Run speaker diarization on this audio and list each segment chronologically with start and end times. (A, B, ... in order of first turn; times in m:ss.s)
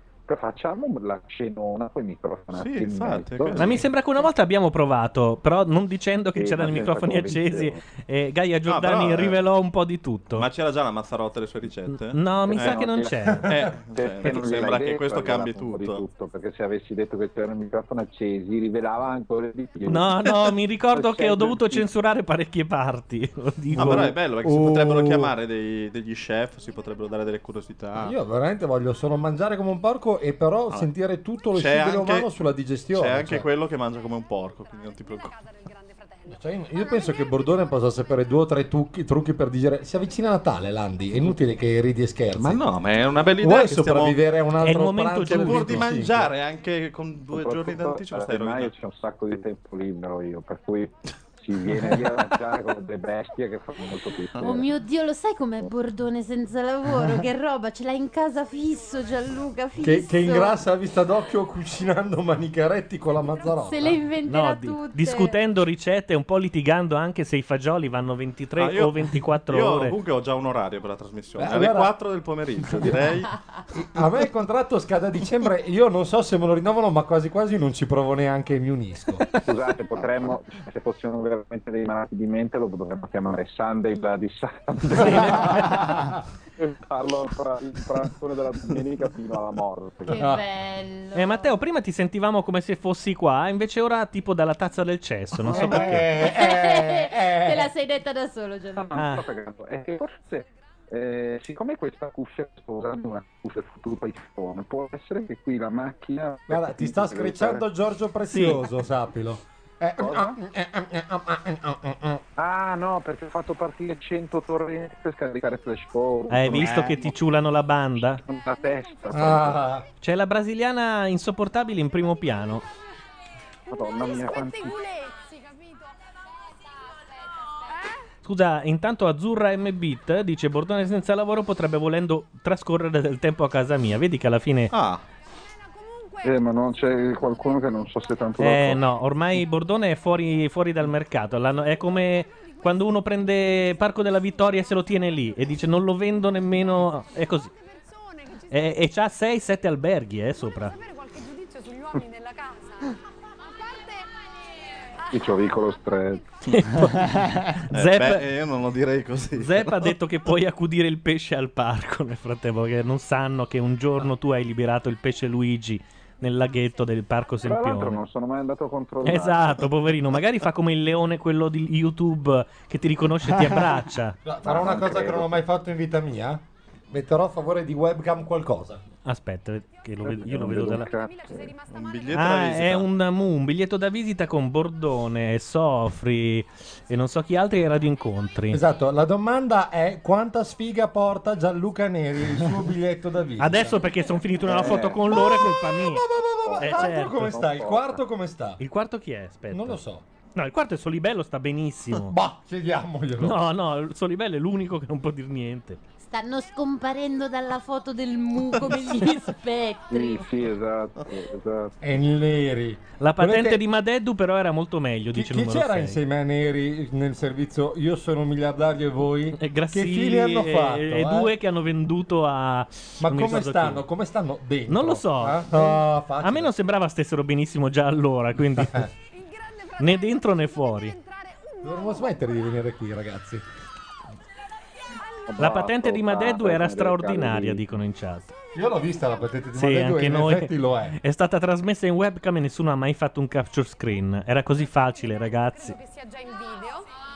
0:00.3-0:03.7 A
0:02.5-0:03.9 B
0:03.6-0:10.5 C
0:06.4-0:07.8 A
0:08.7-0:09.4 B
0:10.3-0:12.9 B
0:11.9-0:13.5 C
0:12.5-0:13.3 A
0:13.4-0:16.0 B
0:13.9-0:20.2 A
0:19.9-0:24.1 C
0:20.9-0:21.9 A
0:23.7-0:28.2 B
0:23.8-0:25.3 D
0:28.0-0:33.4 D
0:31.5-0:32.3 B
0:32.9-0:35.3 B
0:35.0-0:37.1 E
0:36.3-0:42.6 D
0:42.4-0:44.2 B
0:43.4-0:46.3 D
0:44.6-0:45.9 C
0:45.2-0:48.7 B
0:47.3-0:54.7 A
0:54.4-0:54.6 B
0:54.4-1:00.6 F
0:59.8-1:04.0 D
1:03.6-1:05.4 F
1:04.3-1:10.0 C
1:08.6-1:13.3 B
1:11.4-1:11.9 D
1:12.6-1:13.1 D
1:13.7-1:19.3 D
1:19.4-1:25.9 A
1:25.0-1:26.2 D
1:26.6-1:30.3 A
1:30.1-1:31.5 F
1:30.1-1:30.4 D
1:31.2-1:36.1 C
1:35.5-1:37.7 D
1:36.2-1:39.0 F
1:38.7-1:47.6 A
1:38.9-1:39.2 C
1:46.5-1:52.2 D
1:48.3-1:48.6 C
1:50.0-1:50.4 A
1:52.4-1:57.2 A
1:56.3-1:58.2 C
1:58.2-1:59.6 A
1:59.1-1:59.8 D
2:00.0-2:02.6 C
2:03.7-2:04.8 A
2:03.7-2:05.9 E
2:08.2-2:14.7 C
2:14.7-2:15.0 B
2:15.8-2:16.2 E
2:16.2-2:18.8 A
2:18.4-2:27.5 C
2:27.8-2:28.4 E
2:28.5-2:30.7 C
2:30.7-2:32.9 E
2:33.5-2:34.1 E
2:35.1-2:36.2 A
2:36.5-2:38.2 C
2:37.7-2:40.0 B
2:39.4-2:48.0 C
2:47.4-2:49.5 A
2:49.0-2:54.2 C
2:54.2-2:58.8 D
2:54.4-2:55.4 A
2:59.0-3:00.9 C
3:00.0-3:01.5 A
3:01.0-3:02.1 E
3:01.7-3:02.9 B
3:02.1-3:08.6 C
3:08.5-3:13.8 D
3:13.4-3:16.0 C
3:14.4-3:15.6 A
3:14.7-3:18.6 D
3:16.5-3:18.0 A
3:16.6-3:17.4 C
3:18.6-3:19.8 C
3:19.5-3:20.0 D
3:20.4-3:22.1 C
3:21.9-3:23.4 D
3:23.2-3:25.8 C
3:26.0-3:30.3 F
3:29.9-3:31.7 A
3:31.8-3:33.6 D
3:33.0-3:36.0 C
3:35.2-3:41.3 D
3:39.4-3:43.8 C
3:43.0-3:46.5 D
3:44.7-3:48.9 C
3:48.6-3:48.9 D
3:49.4-3:49.7 E
3:49.8-3:51.0 C
3:51.1-3:51.6 E
3:51.6-3:53.4 D
3:55.4-3:57.6 A
3:55.4-3:58.4 C
3:58.6-4:01.0 D
3:59.6-4:05.8 C
4:05.6-4:06.9 E